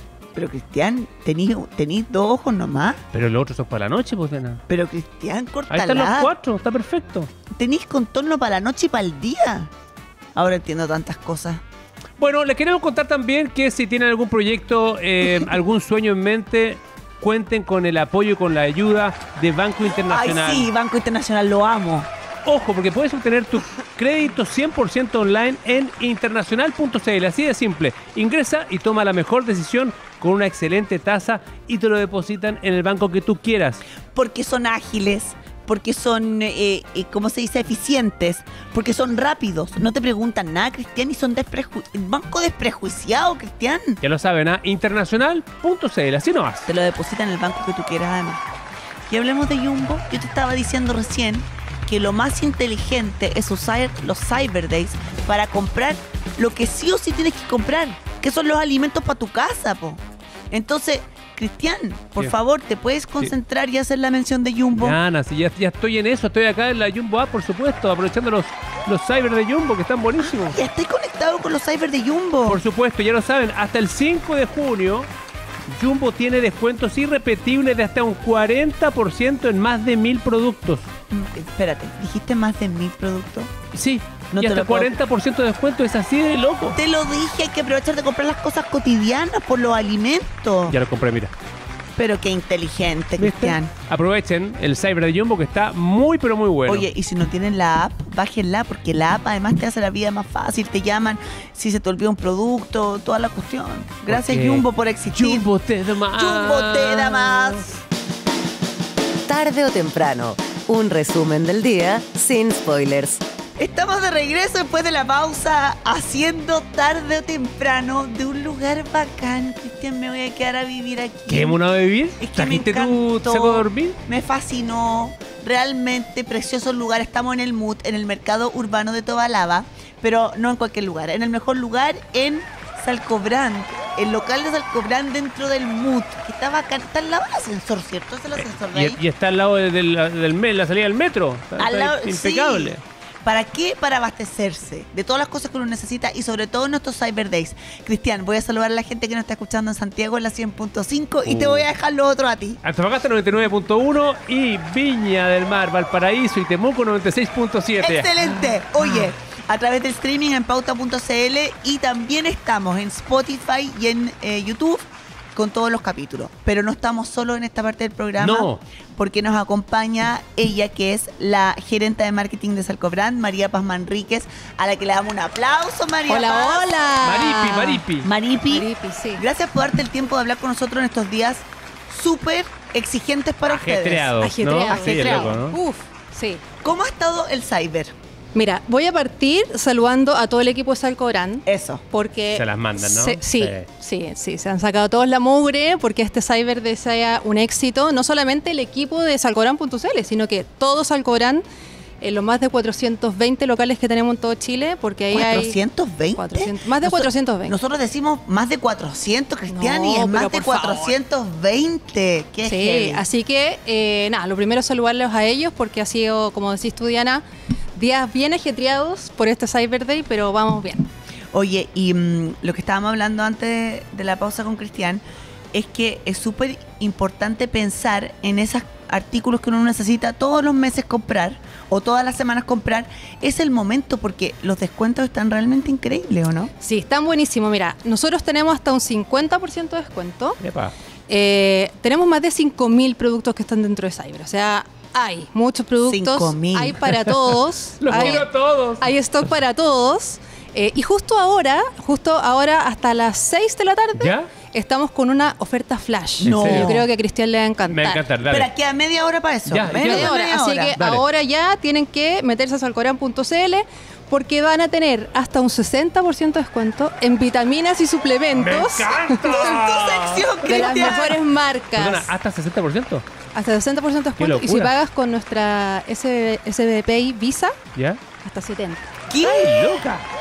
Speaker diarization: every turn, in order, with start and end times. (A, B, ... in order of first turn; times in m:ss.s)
0:00.3-0:03.0 A
0:03.1-0:04.6 B
0:04.7-0:06.3 A
0:05.7-0:07.3 B
0:07.5-0:09.7 A
0:10.3-0:11.6 A
0:12.2-0:20.7 B
0:20.0-0:22.1 A
0:22.4-0:33.8 B
0:34.1-0:44.0 A
0:44.0-0:46.7 B
0:46.7-0:48.4 A
0:49.1-1:05.0 A
1:04.8-1:10.6 B
1:10.2-1:12.6 A
1:12.5-1:15.1 B
1:15.7-1:20.9 B
1:21.1-1:23.6 A
1:23.7-1:26.8 B
1:24.3-1:24.9 A
1:26.7-1:30.8 A
1:30.7-1:31.3 B
1:32.0-1:33.7 A
1:33.2-1:36.9 B
1:36.6-1:45.5 A
1:44.1-1:47.7 B
1:46.1-1:47.7 A
1:49.3-1:53.2 C
1:53.6-2:01.6 A
2:01.3-2:04.0 B
2:02.2-2:19.0 A
2:18.4-2:22.8 B
2:21.6-2:32.6 A
2:31.2-2:31.7 B
2:32.6-2:38.1 B
2:37.8-2:56.9 A
2:48.2-2:48.6 B
2:56.1-2:57.8 D
2:57.0-2:58.1 B
2:58.0-3:05.4 A
2:58.5-2:59.2 D
3:03.4-3:05.6 B
3:04.2-3:06.4 D
3:06.6-3:07.9 A
3:08.3-3:21.4 D
3:11.4-3:11.8 A
3:12.3-3:13.7 B
3:22.0-3:25.6 D
3:25.1-3:33.0 A
3:26.2-3:27.5 D
3:29.5-3:31.0 D
3:32.4-3:37.2 D
3:37.7-3:40.9 D
3:41.3-3:45.0 A
3:45.5-3:56.5 A
3:56.6-4:00.4 D
4:00.4-4:00.7 B
4:01.1-4:08.3 D
4:05.8-4:06.9 A
4:07.8-4:08.9 B
4:07.9-4:08.2 A
4:08.8-4:18.0 D
4:14.0-4:14.3 B
4:16.2-4:16.9 A
4:16.2-4:16.8 B
4:17.7-4:18.5 B
4:18.3-4:20.7 A
4:19.5-4:20.1 B
4:19.8-4:29.2 D
4:20.8-4:21.0 B
4:28.3-4:31.1 B
4:29.2-4:31.2 A
4:30.4-4:32.1 D
4:31.8-4:33.0 B
4:33.3-4:37.6 D
4:34.2-4:34.7 B
4:37.7-4:38.0 B
4:38.2-4:38.9 D
4:39.1-4:39.8 A
4:39.2-4:40.0 B